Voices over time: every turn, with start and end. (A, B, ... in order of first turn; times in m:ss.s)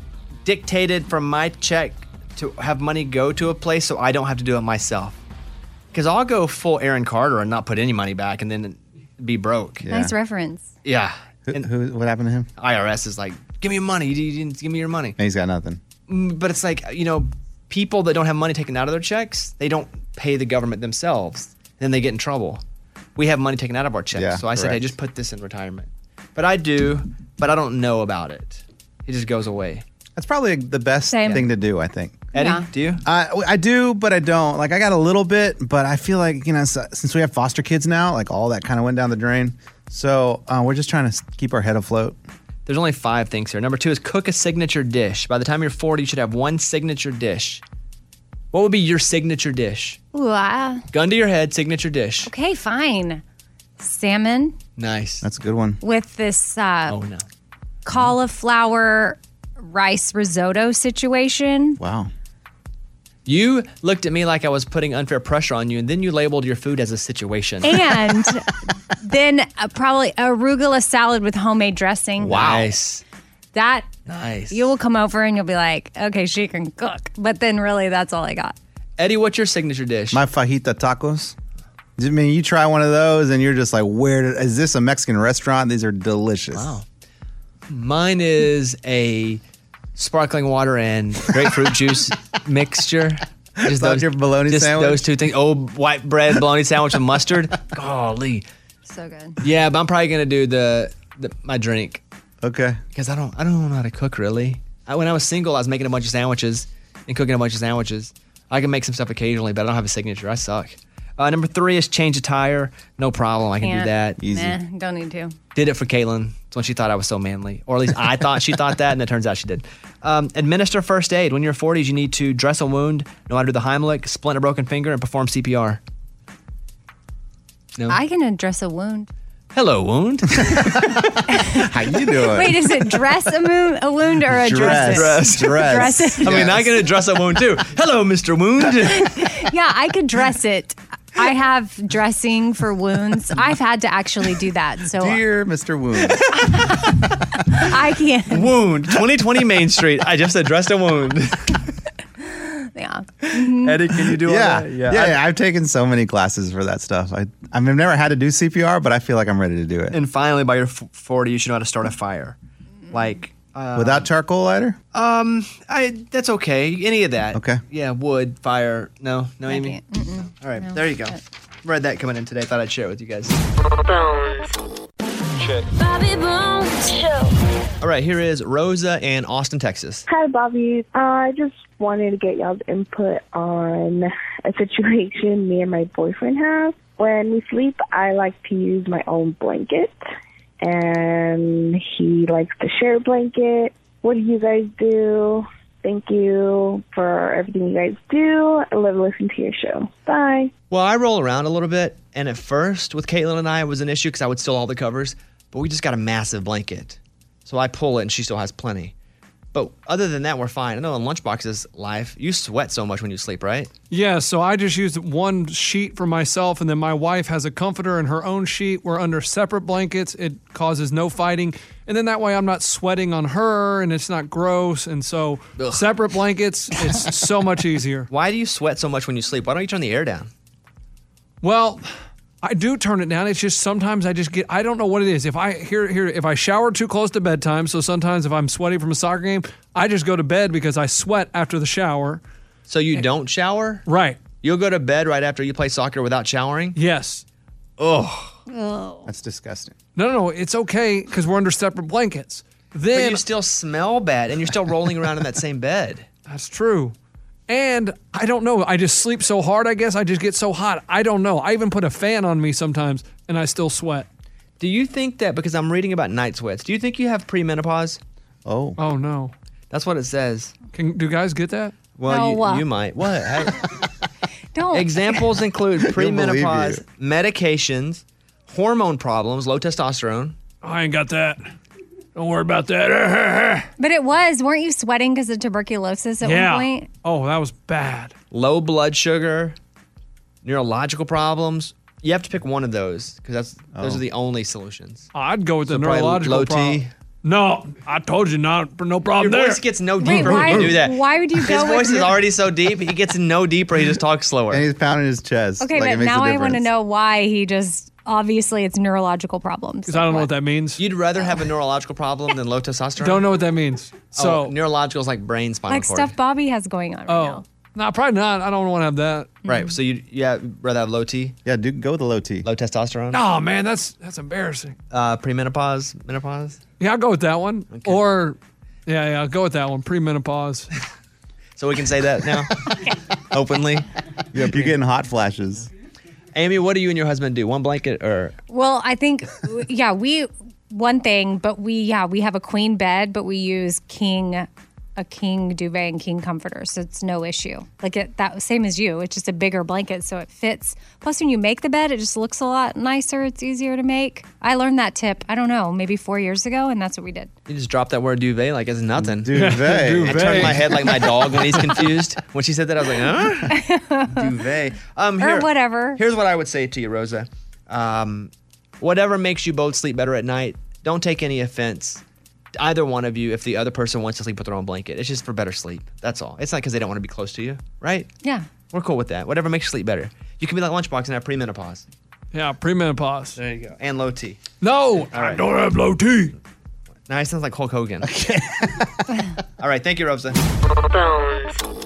0:00.4-0:05.2 A
0:05.9-0:09.8 A
0:09.8-0:10.1 B
0:09.9-0:10.7 C
0:10.8-0:11.7 A
0:11.5-0:12.5 B
0:12.6-0:15.2 A
0:15.2-0:15.8 B
0:16.1-0:22.6 A
0:23.2-0:29.8 A
0:24.2-0:24.8 B
0:30.2-0:32.2 B
0:31.1-0:31.5 C
0:32.3-0:32.7 C
0:32.3-0:33.0 A
0:33.0-0:42.2 B
0:42.7-0:47.6 A
0:48.5-0:50.0 A
0:50.1-0:50.8 C
0:50.9-0:52.3 A
0:52.2-0:53.2 C
0:53.8-0:54.6 C
0:54.8-0:55.2 A
0:55.2-0:55.8 B
0:55.8-0:57.0 C
0:56.9-0:57.2 A
0:57.8-1:01.8 C
1:01.8-1:02.1 B
1:03.3-1:08.0 A
1:07.6-1:08.5 C
1:09.0-1:12.7 C
1:12.2-1:13.0 A
1:13.5-1:13.9 C
1:14.0-1:14.7 A
1:14.5-1:18.6 C
1:19.0-1:20.2 A
1:20.1-1:21.3 B
1:22.0-1:26.8 B
1:26.5-1:26.8 A
1:27.7-1:29.4 A
1:30.0-1:38.4 A
1:33.6-1:35.1 B
1:38.9-1:39.4 C
1:39.4-1:42.0 A
1:42.4-1:42.8 B
1:42.9-1:54.2 A
1:53.6-1:55.3 C
1:54.2-1:54.6 B
1:55.5-2:05.8 A
2:07.9-2:09.1 C
2:09.5-2:11.3 A
2:10.6-2:11.0 B
2:11.3-2:11.7 C
2:11.5-2:12.6 B
2:12.2-2:16.4 C
2:14.3-2:16.8 B
2:14.6-2:19.3 A
2:18.9-2:25.2 C
2:25.0-2:26.4 B
2:26.3-2:28.5 C
2:28.3-2:31.6 A
2:32.2-2:33.8 C
2:33.2-2:35.2 A
2:34.2-2:40.0 B
2:39.9-2:42.4 A
2:42.9-2:44.1 A
2:43.7-2:44.8 B
2:44.9-2:49.8 A
2:47.3-2:47.6 B
2:49.5-2:51.2 C
2:50.4-2:53.4 A
2:53.8-2:54.6 D
2:55.7-2:57.3 D
2:57.8-3:00.0 A
3:00.1-3:10.0 E
3:10.6-3:20.5 E
3:20.7-3:28.9 A
3:29.5-3:33.7 A
3:33.9-3:48.1 F
3:48.1-3:50.3 A
3:51.4-3:51.8 F
3:52.4-4:02.2 F
4:02.7-4:03.8 A
4:03.8-4:04.2 F
4:04.4-4:06.8 A
4:06.8-4:07.2 F
4:07.8-4:08.3 A
4:08.5-4:09.1 C
4:09.0-4:09.8 B
4:10.0-4:13.2 F
4:12.9-4:16.0 A
4:16.3-4:17.0 F
4:17.5-4:24.1 F
4:24.6-4:28.0 A
4:28.4-4:28.8 B
4:28.8-4:29.3 F
4:29.7-4:30.5 A
4:30.7-4:31.8 F
4:32.0-4:33.7 A
4:32.0-4:32.6 C
4:34.5-4:35.2 C
4:34.7-4:40.4 A
4:35.8-4:36.8 B
4:40.6-4:41.4 F
4:42.1-4:43.7 F
4:43.8-4:46.9 C
4:46.2-4:48.1 F
4:48.3-4:49.6 A
4:50.4-4:55.1 A
4:53.8-4:54.0 B
4:55.1-5:00.5 F
4:55.7-4:56.9 A
4:59.2-5:04.6 A
5:00.0-5:02.2 C
5:04.5-5:06.7 B
5:05.6-5:10.3 C
5:09.9-5:10.8 F
5:10.8-5:13.2 A
5:13.0-5:14.6 F
5:14.1-5:16.1 A
5:15.7-5:17.4 C
5:17.1-5:19.4 F
5:19.4-5:21.4 A
5:19.5-5:19.7 C
5:21.4-5:22.5 B
5:22.4-5:23.2 A
5:23.1-5:24.8 F
5:24.9-5:26.6 A
5:26.8-5:30.7 F
5:27.7-5:28.0 A
5:31.6-5:32.7 A
5:33.3-5:34.7 A
5:34.3-5:35.7 B
5:36.3-5:38.4 A
5:38.5-5:57.3 C
5:57.5-6:12.0 A
5:59.0-6:00.6 B
5:59.3-6:01.8 F
6:03.5-6:04.3 C
6:05.2-6:06.0 C
6:12.6-6:18.1 A
6:18.7-6:21.9 A
6:22.3-6:23.4 F
6:23.4-6:24.4 A
6:24.6-6:26.3 F
6:25.1-6:25.4 A
6:27.1-6:28.1 A
6:28.0-6:29.1 B
6:29.6-6:30.4 A
6:30.9-6:31.6 D